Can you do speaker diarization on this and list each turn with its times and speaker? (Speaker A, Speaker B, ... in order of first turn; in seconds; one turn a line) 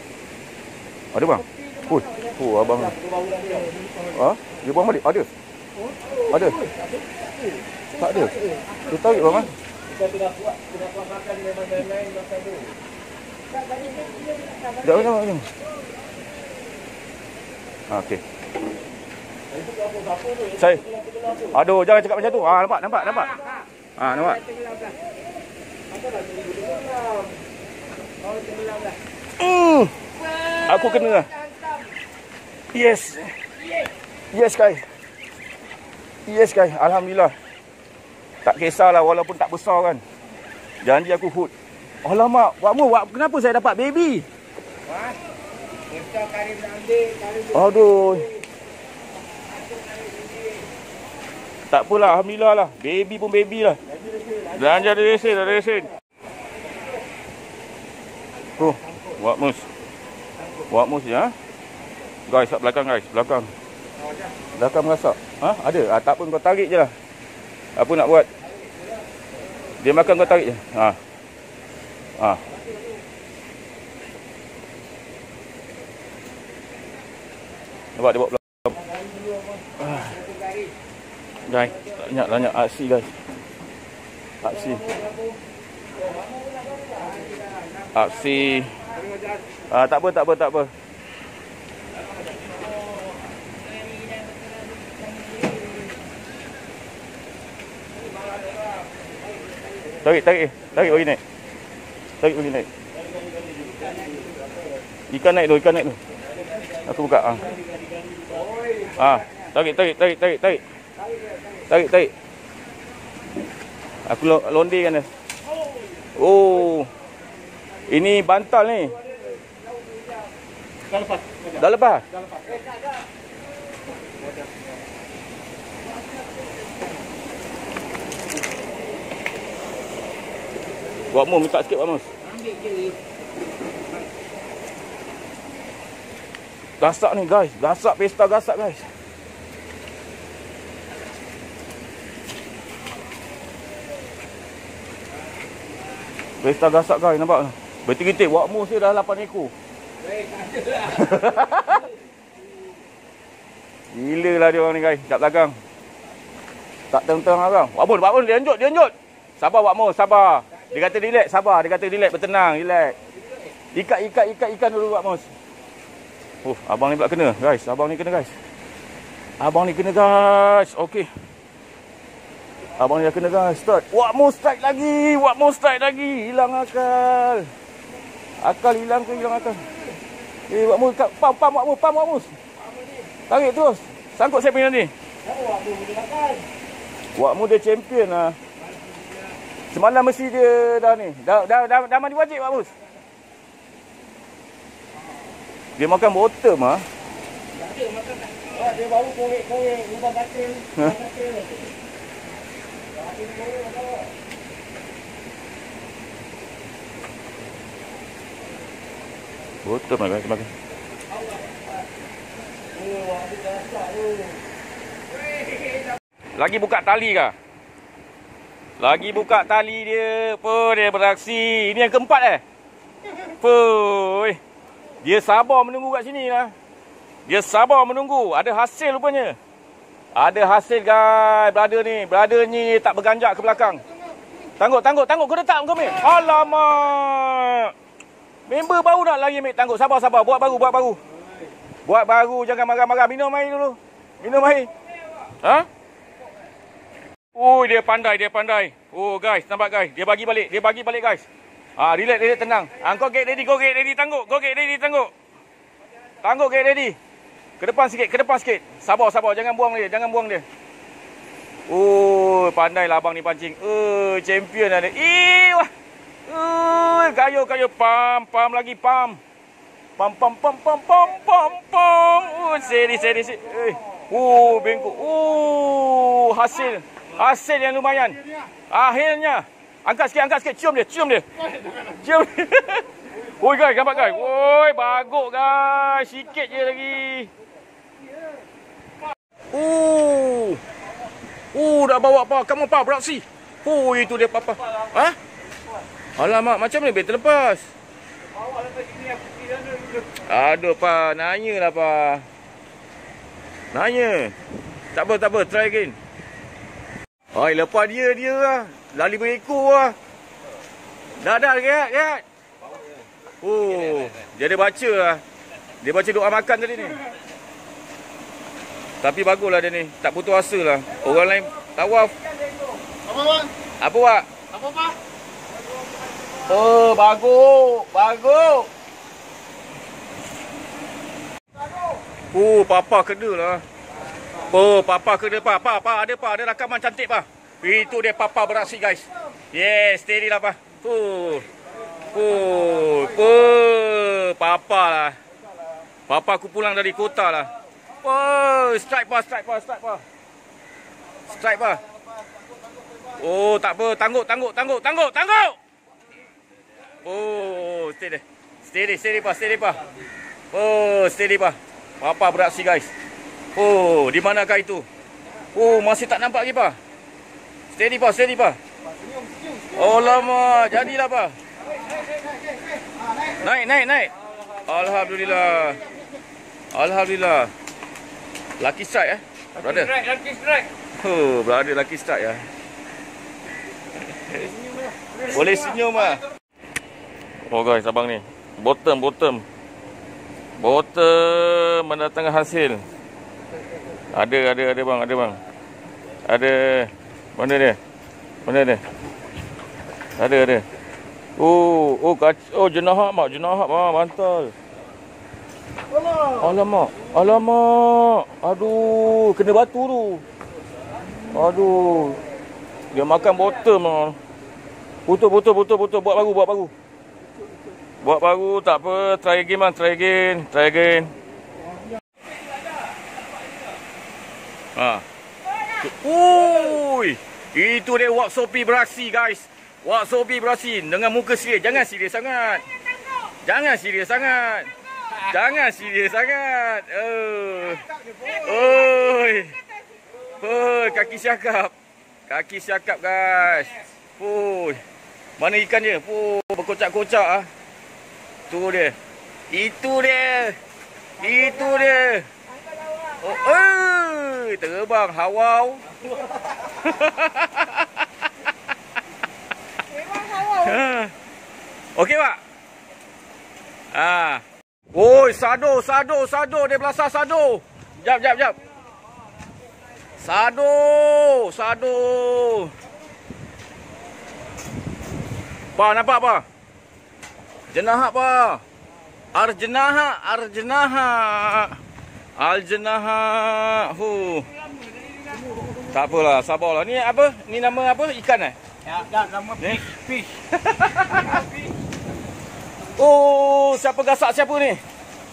Speaker A: 1.1-2.9
Speaker B: 1.4-4.2
Speaker A: 4.1-5.3
Speaker B: 5.7-12.8
Speaker A: 6.3-6.5
Speaker A: 8.0-9.5
Speaker B: 13.5-15.1
Speaker A: 14.8-15.5
Speaker A: 17.9-18.2
Speaker B: 19.5-21.6
Speaker A: 20.6-20.8
Speaker A: 21.5-23.4
Speaker B: 23.1-25.1
Speaker A: 24.0-24.4
Speaker B: 25.9-27.4
Speaker B: 28.2-29.0
Speaker A: 29.4-29.9
Speaker B: 30.2-31.9
Speaker A: 30.6-31.3
Speaker A: 32.7-33.3
Speaker B: 33.6-33.9
Speaker A: 34.3-34.8
Speaker A: 36.2-37.3
Speaker A: 38.4-40.0
Speaker A: 40.8-41.5
Speaker A: 42.0-44.3
Speaker B: 44.9-45.2
Speaker B: 45.9-48.4
Speaker A: 47.5-48.3
Speaker B: 49.5-50.6
Speaker A: 51.7-53.8
Speaker B: 54.2-54.4
Speaker A: 54.5-55.9
Speaker A: 58.6-59.7
Speaker A: 60.7-61.3
Speaker A: 62.3-63.5
Speaker A: 64.5-66.9
Speaker A: 67.7-68.3
Speaker A: 69.8-71.0
Speaker A: 72.2-72.4
Speaker A: 78.0-78.8
Speaker B: 78.8-80.7
Speaker A: 79.8-80.1
Speaker A: 81.5-83.1
Speaker A: 84.4-84.8
Speaker B: 84.4-85.4
Speaker B: 85.9-89.4
Speaker A: 87.9-88.8
Speaker A: 89.7-90.7
Speaker B: 93.8-95.9
Speaker A: 100.0-101.2
Speaker A: 102.2-102.7
Speaker B: 103.1-104.6
Speaker A: 105.1-106.0
Speaker A: 106.8-107.5
Speaker B: 107.4-109.2
Speaker A: 108.9-110.6
Speaker B: 111.0-111.6
Speaker A: 111.7-112.1
Speaker A: 114.0-115.1
Speaker A: 116.2-116.9
Speaker A: 117.9-119.0
Speaker B: 119.1-120.0
Speaker B: 120.9-121.6
Speaker A: 121.6-122.0
Speaker B: 122.2-122.9
Speaker A: 131.1-132.1
Speaker B: 132.3-132.9
Speaker A: 136.8-138.9
Speaker A: 146.4-149.5
Speaker B: 150.0-151.8
Speaker A: 150.9-151.8
Speaker A: 153.9-155.6
Speaker A: 156.9-162.9
Speaker A: 163.7-165.3
Speaker A: 166.4-168.3
Speaker A: 169.4-171.2
Speaker A: 172.8-177.5
Speaker A: 178.4-179.6
Speaker A: 180.5-182.4
Speaker B: 182.6-183.1
Speaker A: 183.3-184.9
Speaker B: 185.2-186.5
Speaker A: 187.1-188.4
Speaker B: 188.6-189.4
Speaker A: 189.7-192.7
Speaker A: 195.8-196.8
Speaker B: 197.5-201.7
Speaker B: 202.9-204.1
Speaker A: 209.6-210.5
Speaker B: 211.3-211.6
Speaker B: 212.7-214.4
Speaker A: 216.3-217.3
Speaker A: 218.8-222.4
Speaker A: 223.3-224.4
Speaker A: 225.0-226.5
Speaker A: 227.2-229.4
Speaker A: 230.1-233.8
Speaker A: 234.6-237.7
Speaker A: 238.5-241.0
Speaker A: 241.8-244.7
Speaker A: 245.3-245.7
Speaker A: 247.3-251.2
Speaker A: 251.8-255.1
Speaker A: 256.2-257.0
Speaker A: 257.6-260.4
Speaker A: 261.7-265.7
Speaker A: 266.3-269.2
Speaker A: 270.0-287.3
Speaker A: 289.5-290.6
Speaker A: 291.5-295.2
Speaker A: 296.1-297.7
Speaker B: 298.5-300.0
Speaker A: 300.1-302.3
Speaker A: 303.7-304.4
Speaker A: 304.9-306.0
Speaker A: 307.3-309.9
Speaker A: 311.2-312.2
Speaker A: 313.4-315.2
Speaker A: 315.8-317.0
Speaker A: 319.0-322.1
Speaker B: 323.1-323.4
Speaker A: 323.8-324.3
Speaker A: 326.4-328.7
Speaker A: 332.3-333.6
Speaker A: 334.5-341.5
Speaker A: 342.1-345.2
Speaker A: 346.1-350.0
Speaker A: 351.3-351.8
Speaker A: 353.2-355.6
Speaker A: 357.0-359.8
Speaker A: 360.5-362.9
Speaker A: 363.5-364.9
Speaker A: 365.5-366.8
Speaker A: 367.7-368.6
Speaker A: 369.7-371.4
Speaker A: 373.4-374.1
Speaker A: 374.6-375.9
Speaker A: 376.7-377.5
Speaker A: 378.6-380.0
Speaker B: 379.9-380.6
Speaker A: 381.0-382.5
Speaker A: 385.2-386.2
Speaker A: 387.5-389.4
Speaker A: 390.6-392.8
Speaker A: 394.1-395.4
Speaker A: 396.2-397.8
Speaker A: 398.4-398.8
Speaker A: 400.2-400.6
Speaker A: 401.4-404.5
Speaker A: 406.4-410.2
Speaker A: 411.3-412.2
Speaker A: 412.9-414.2
Speaker A: 415.1-416.7
Speaker A: 418.0-421.1
Speaker A: 424.7-425.0
Speaker A: 425.8-432.6
Speaker A: 433.4-439.6
Speaker A: 440.4-441.7
Speaker A: 442.3-444.8
Speaker A: 445.4-447.5
Speaker A: 448.5-448.9
Speaker A: 449.5-450.6
Speaker A: 451.2-452.3
Speaker A: 453.2-455.8
Speaker A: 456.6-457.9
Speaker A: 460.2-461.1
Speaker A: 461.9-462.4
Speaker A: 463.9-468.6
Speaker A: 470.2-472.7
Speaker A: 475.8-476.4
Speaker A: 477.7-478.6
Speaker A: 479.3-481.8
Speaker A: 482.4-484.5
Speaker B: 485.0-485.7
Speaker A: 485.8-488.6
Speaker B: 488.9-490.2
Speaker A: 489.6-491.4
Speaker B: 491.3-491.6
Speaker A: 492.9-494.8